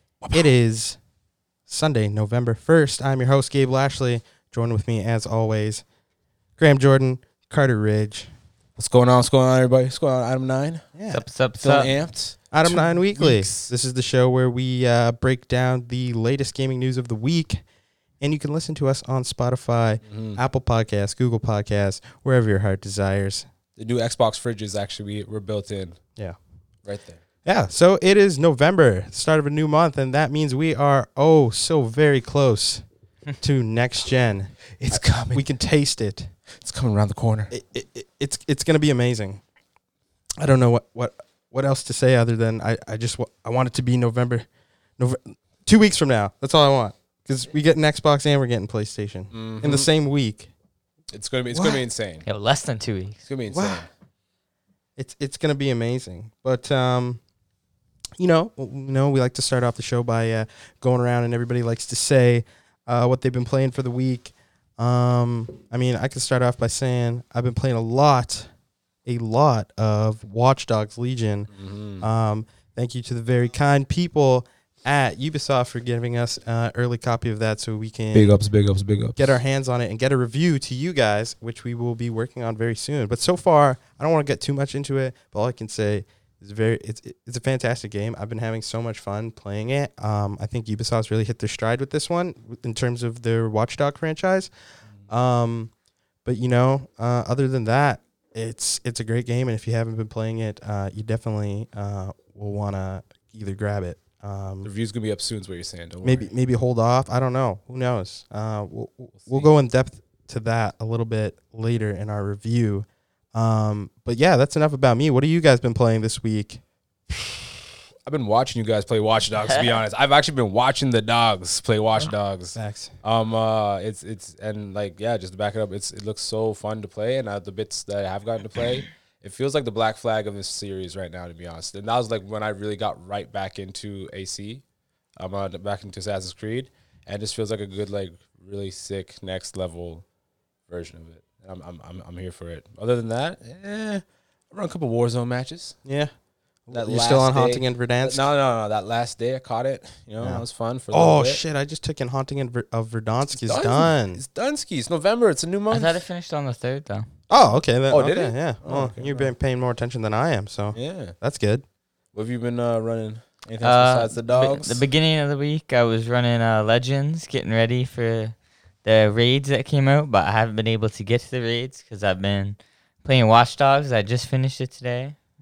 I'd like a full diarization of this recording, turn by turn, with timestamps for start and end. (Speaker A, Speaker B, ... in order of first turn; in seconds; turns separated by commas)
Speaker A: 0.2-0.5, Speaker B: 0.3-1.0, Speaker B: 1.7-5.8, Speaker B: 6.6-8.3, Speaker A: 8.8-10.8, Speaker B: 10.9-11.2, Speaker C: 11.1-11.9, Speaker A: 11.6-13.7, Speaker B: 12.5-17.6, Speaker B: 18.2-23.5, Speaker A: 20.1-20.4, Speaker A: 23.8-26.0, Speaker A: 26.8-27.2, Speaker B: 27.4-32.8, Speaker B: 33.4-36.3, Speaker A: 34.8-35.4, Speaker A: 36.6-37.5, Speaker B: 37.5-39.4, Speaker B: 40.4-44.5, Speaker B: 45.0-50.5, Speaker A: 49.3-49.9, Speaker A: 51.1-52.2, Speaker B: 51.5-51.8, Speaker C: 52.2-53.2, Speaker A: 53.3-53.9, Speaker B: 53.5-53.9, Speaker B: 55.0-57.2, Speaker B: 58.2-68.5, Speaker B: 69.0-71.5, Speaker A: 71.5-72.1, Speaker B: 72.0-78.4, Speaker A: 78.1-79.2, Speaker B: 79.2-94.5, Speaker B: 95.1-95.7, Speaker B: 96.2-104.7, Speaker A: 104.6-106.3, Speaker B: 106.0-116.6, Speaker A: 109.2-109.5, Speaker A: 118.0-134.6, Speaker C: 119.5-119.8, Speaker B: 122.5-122.9, Speaker A: 135.2-140.0, Speaker A: 140.7-145.8, Speaker B: 145.8-146.1, Speaker B: 146.7-148.2, Speaker A: 146.7-151.4, Speaker B: 150.2-154.2, Speaker A: 153.3-156.0, Speaker C: 155.7-157.1, Speaker B: 157.3-161.6, Speaker A: 157.9-159.3, Speaker A: 160.7-161.1, Speaker A: 162.1-164.8, Speaker C: 163.6-175.2